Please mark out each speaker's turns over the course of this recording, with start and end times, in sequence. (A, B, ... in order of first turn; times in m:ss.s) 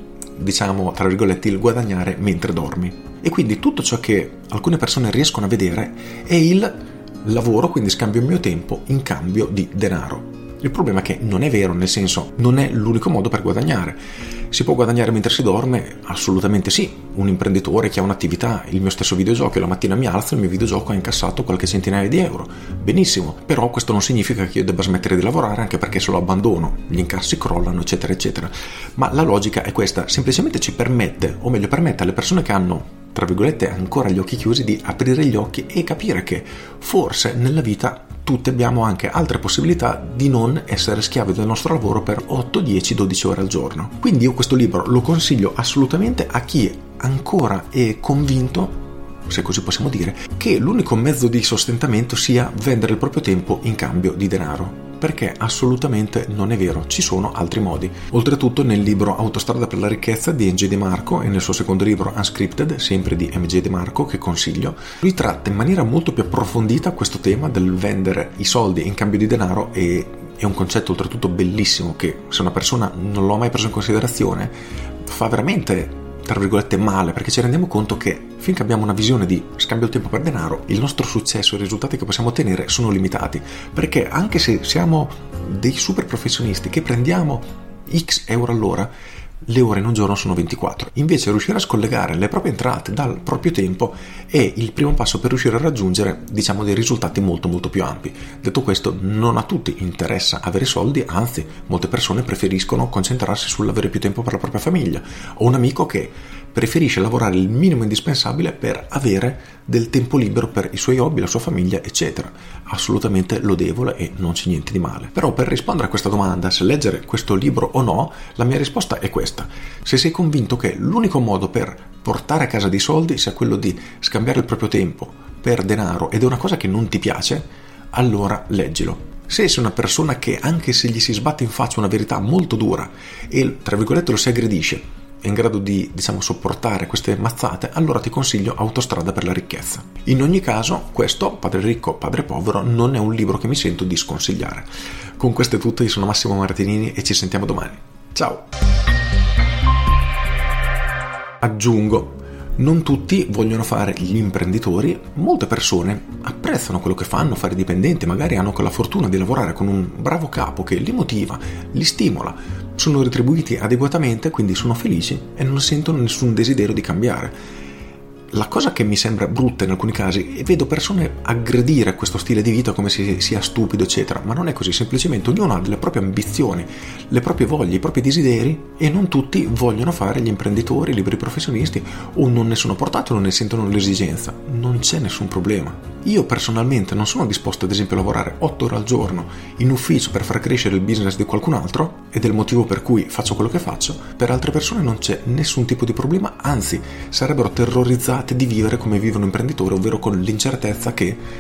0:00.4-1:14.5 A
1:15.0-1:28.9 A
1:29.4-2:28.4 A
2:31.4-2:47.4 A
2:48.3-3:21.2 A